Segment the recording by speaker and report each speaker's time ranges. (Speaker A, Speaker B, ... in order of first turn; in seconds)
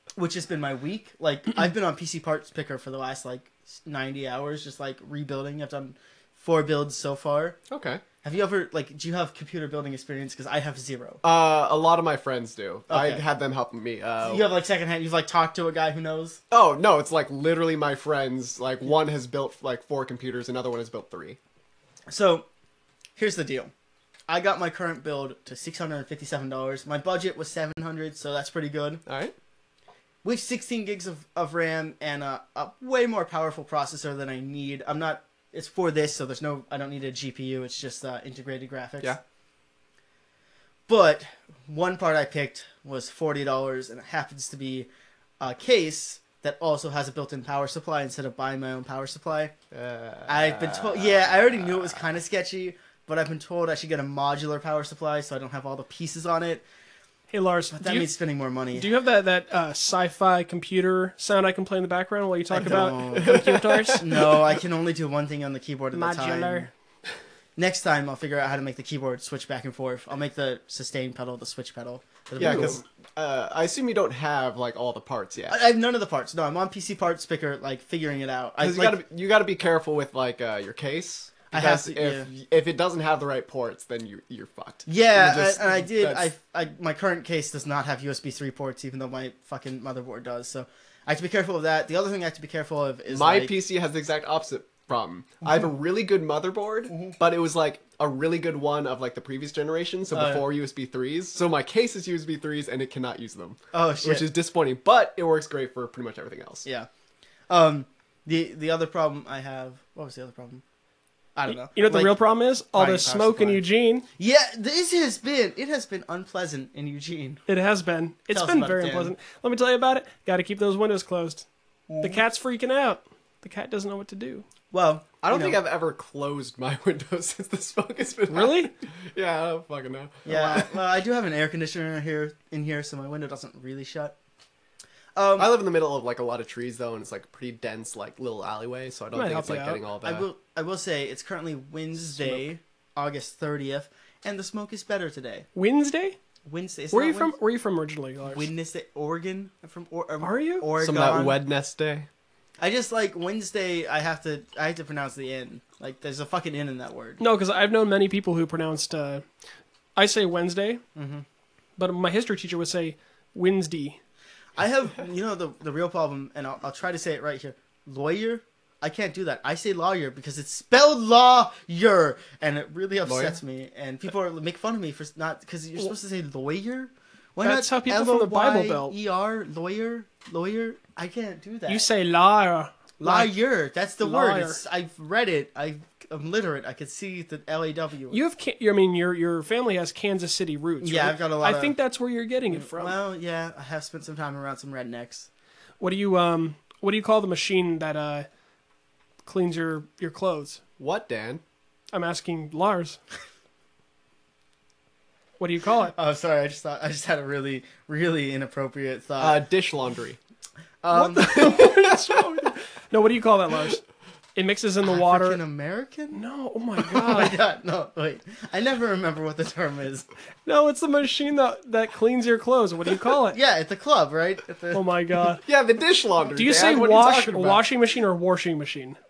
Speaker A: 0.1-7.6, 8.2-11.2, 12.9-13.2, 14.2-16.4, 22.1-22.4, 23.1-23.7, 24.3-29.0, 30.2-39.2, 40.9-44.9, 45.4-49.5, 50.3-56.6, 57.7-58.9, 62.5-66.7, 67.5-72.8, 75.5-79.0, 81.5-82.3, 84.9-93.5, 96.9-97.2, 100.1-100.4, 103.7-104.3, 107.5-110.6, 111.3-112.1, 112.7-113.6, 114.2-117.4, 118.3-119.1, 121.9-122.2, 124.7-125.6, 130.2-134.1, 135.2-135.5, 140.0-145.5, 146.4-147.3, 148.2-151.4, 152.6-157.2, 160.9-161.2, 164.6-181.8, 183.0-188.2, 190.8-191.7, 192.5-195.3, 205.9-209.4, 210.8-211.6, 214.8-216.2, 216.8-220.1, 223.3-224.8
Speaker B: 7.7-8.0, 11.2-14.5, 16.5-21.4, 29.1-29.3, 49.7-52.0, 63.0-64.5, 72.4-75.6, 78.6-86.3, 93.1-106.7, 125.2-130.8, 135.4-140.2, 150.8-152.1, 173.1-173.4, 200.8-201.4, 209.2-210.2, 211.3-212.0, 225.4-227.6
Speaker C: 57.3-58.1, 58.7-64.1, 65.9-66.7, 111.5-114.0, 117.5-121.5, 122.0-124.4, 128.3-128.7, 139.1-139.8, 145.5-146.2, 146.9-148.5, 150.2-150.7, 157.2-159.2, 159.9-160.8, 161.8-164.0, 177.4-178.9, 181.7-183.3, 184.0-184.6, 188.1-192.9, 195.8-198.3, 199.2-200.6, 201.9-203.0, 205.4-205.9, 210.9-213.8, 214.3-215.4, 216.1-217.4, 220.4-223.4, 224.7-225.4, 226.3-229.0